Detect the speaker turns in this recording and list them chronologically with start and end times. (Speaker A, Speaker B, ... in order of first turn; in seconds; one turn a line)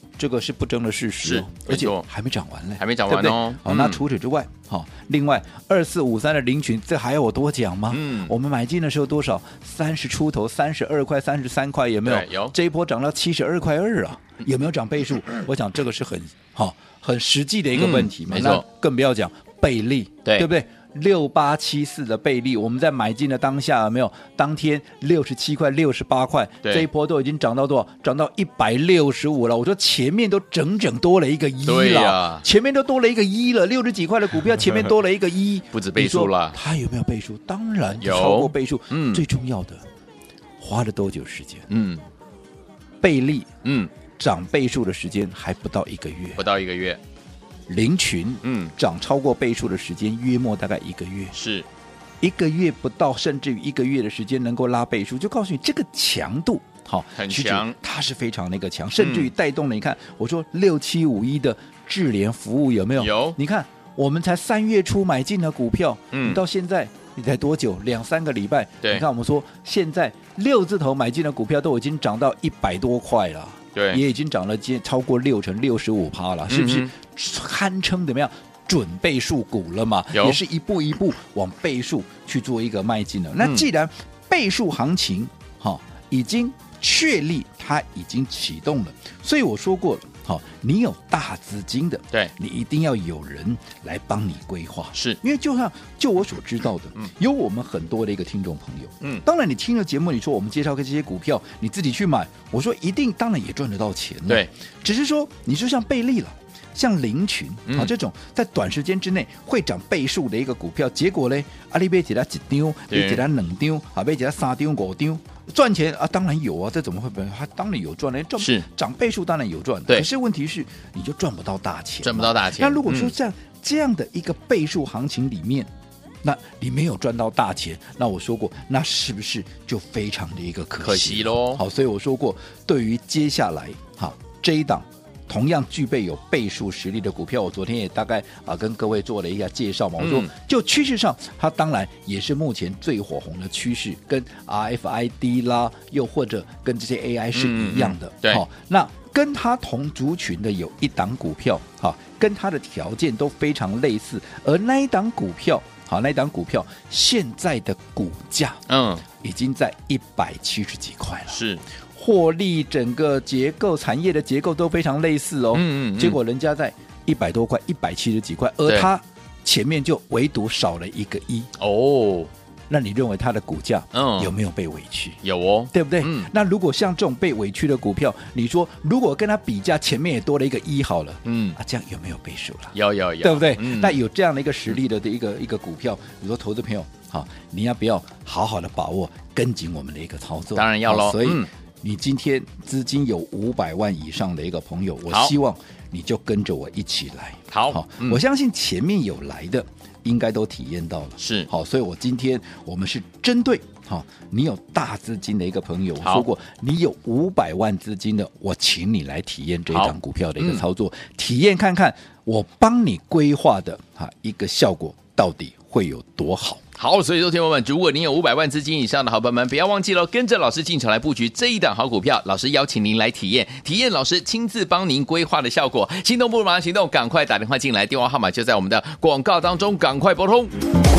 Speaker A: 0.2-39.8
Speaker B: 1.2-2.0
Speaker B: 2.8-4.0
Speaker B: 7.9-8.3
Speaker B: 12.0-12.5
Speaker B: 17.7-18.6
Speaker B: 31.6-32.5
Speaker B: 35.7-36.5
Speaker B: 38.0-39.2
Speaker A: 40.6-41.7
Speaker B: 41.7-42.0
Speaker A: 43.0-43.5
Speaker B: 43.6-43.9
Speaker A: 44.2-46.5
Speaker B: 46.4-47.0
Speaker A: 47.7-51.3
Speaker B: 48.4-48.7
Speaker B: 51.3-51.7
Speaker A: 52.2-125.7
Speaker B: 57.1-57.8
Speaker B: 59.0-59.3
Speaker B: 63.0-63.4
Speaker B: 66.1-66.4
Speaker B: 73.7-74.0
Speaker B: 76.5-76.9
Speaker B: 80.1-80.4
Speaker B: 83.4-83.6
Speaker B: 94.9-95.2
Speaker B: 112.9-113.2
Speaker B: 118.4-118.6
Speaker B: 122.0-123.1
Speaker A: 126.2-158.6
Speaker B: 130.8-131.6
Speaker B: 140.0-140.3
Speaker B: 147.3-148.4
Speaker B: 158.7-159.0
Speaker A: 159.2-161.4
Speaker B: 161.3-161.6
Speaker A: 161.9-171.5
Speaker B: 165.5-166.2
Speaker B: 171.6-172.3
Speaker A: 172.7-175.2
Speaker B: 173.9-174.3
Speaker B: 175.2-176.3
Speaker A: 175.7-216.6
Speaker B: 181.2-181.6
Speaker B: 182.7-184.0
Speaker B: 190.5-191.5
Speaker B: 195.1-195.3
Speaker B: 197.5-198.2
Speaker B: 201.2-201.5
Speaker B: 206.0-206.3
Speaker B: 209.7-210.6
Speaker B: 216.8-230.5